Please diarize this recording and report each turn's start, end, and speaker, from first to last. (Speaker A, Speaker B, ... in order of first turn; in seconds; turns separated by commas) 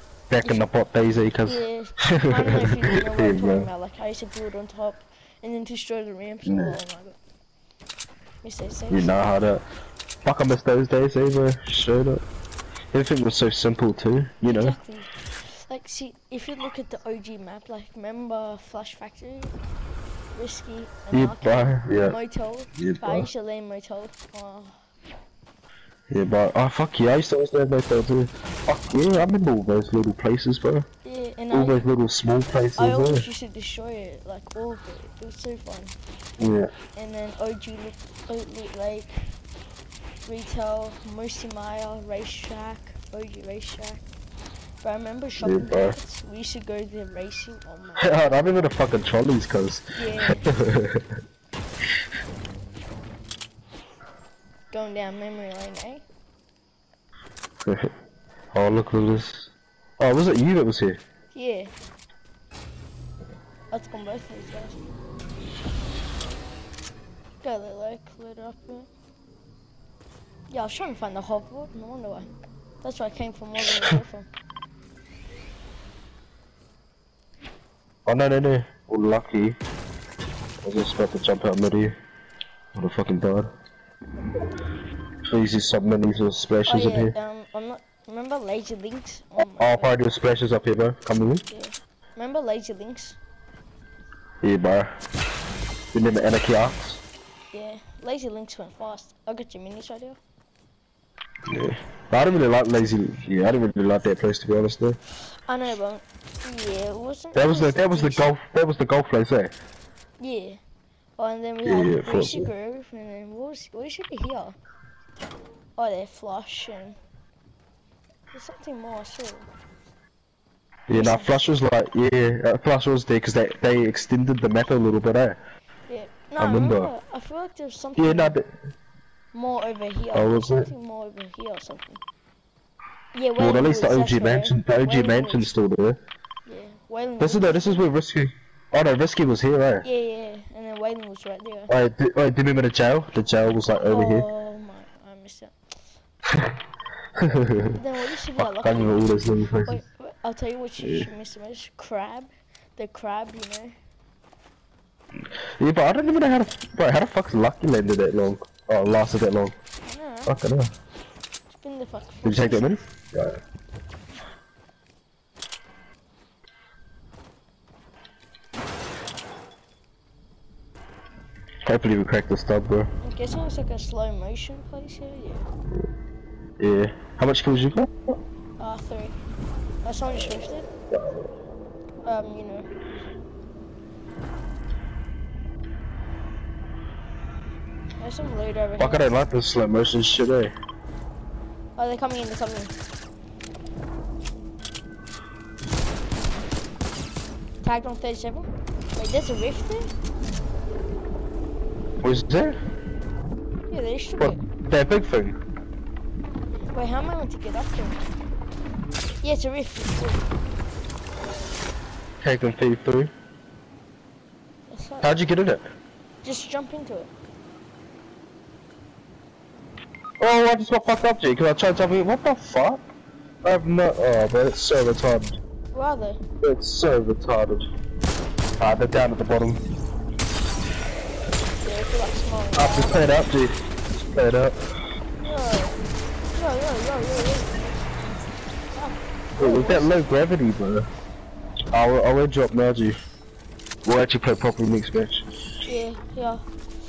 Speaker A: 0.3-3.7, Speaker B: 1.4-7.2, Speaker A: 6.5-6.7, Speaker B: 8.4-9.2, Speaker A: 8.9-9.6, Speaker A: 10.2-12.2, Speaker A: 12.9-14.8, Speaker B: 14.4-19.5, Speaker B: 20.3-24.8, Speaker A: 21.1-22.1, Speaker A: 22.8-23.3, Speaker A: 26.1-30.9, Speaker B: 31.0-31.9, Speaker A: 31.5-33.2, Speaker B: 32.8-36.0, Speaker A: 36.4-36.7, Speaker B: 37.0-39.2, Speaker B: 40.2-44.0, Speaker B: 44.8-48.1, Speaker A: 45.4-46.0, Speaker A: 48.0-51.0, Speaker B: 49.9-50.5, Speaker B: 54.7-56.0, Speaker A: 57.6-57.9, Speaker A: 58.5-61.0, Speaker B: 61.3-61.7, Speaker B: 63.7-64.8, Speaker B: 67.4-68.9, Speaker B: 70.5-72.3, Speaker B: 72.8-74.3, Speaker A: 78.0-79.6, Speaker A: 80.6-81.9, Speaker A: 82.7-83.5, Speaker A: 85.3-87.1, Speaker B: 86.7-89.9, Speaker A: 89.6-91.4, Speaker B: 91.5-93.2, Speaker A: 94.4-95.0, Speaker A: 95.9-97.0, Speaker B: 97.5-100.2, Speaker A: 101.5-105.0, Speaker B: 105.5-108.2, Speaker A: 107.3-109.5, Speaker B: 110.2-110.6, Speaker B: 111.2-114.6, Speaker A: 111.6-112.5, Speaker B: 115.8-117.0, Speaker B: 118.3-119.5, Speaker A: 120.9-125.4, Speaker B: 120.9-121.5, Speaker B: 125.9-128.3, Speaker A: 126.4-126.9, Speaker A: 128.0-128.5, Speaker B: 129.3-132.0, Speaker A: 130.1-130.7, Speaker B: 133.1-135.5, Speaker A: 133.4-136.0, Speaker B: 136.4-137.8, Speaker A: 137.2-139.8, Speaker B: 139.8-141.7, Speaker A: 141.7-144.2, Speaker B: 143.9-145.5, Speaker A: 147.2-147.8, Speaker B: 147.8-149.0, Speaker A: 148.4-149.8, Speaker B: 149.6-153.8, Speaker A: 155.6-159.6, Speaker B: 159.8-160.3, Speaker A: 160.2-160.7, Speaker B: 161.5-162.7, Speaker A: 162.2-163.4, Speaker A: 171.6-172.9, Speaker B: 173.0-175.5, Speaker A: 176.6-178.1, Speaker B: 178.6-179.2, Speaker B: 179.8-180.7, Speaker A: 180.9-181.3, Speaker B: 182.0-182.7, Speaker B: 188.0-189.1, Speaker A: 188.8-190.5, Speaker B: 191.8-192.7, Speaker B: 197.6-199.9, Speaker A: 202.0-202.6, Speaker B: 203.7-204.4, Speaker A: 204.2-205.4, Speaker B: 206.7-208.2, Speaker B: 209.2-210.2, Speaker A: 212.2-213.1, Speaker B: 214.7-215.2, Speaker A: 215.0-215.7, Speaker B: 216.2-217.1, Speaker A: 220.2-222.8, Speaker A: 223.4-225.3, Speaker B: 225.7-226.2, Speaker A: 226.4-227.7, Speaker A: 228.6-229.6, Speaker B: 231.6-233.0, Speaker A: 232.6-234.6, Speaker B: 235.2-237.6, Speaker B: 238.7-239.9, Speaker A: 239.3-240.9, Speaker A: 241.7-243.0, Speaker A: 243.8-245.2, Speaker B: 245.6-246.4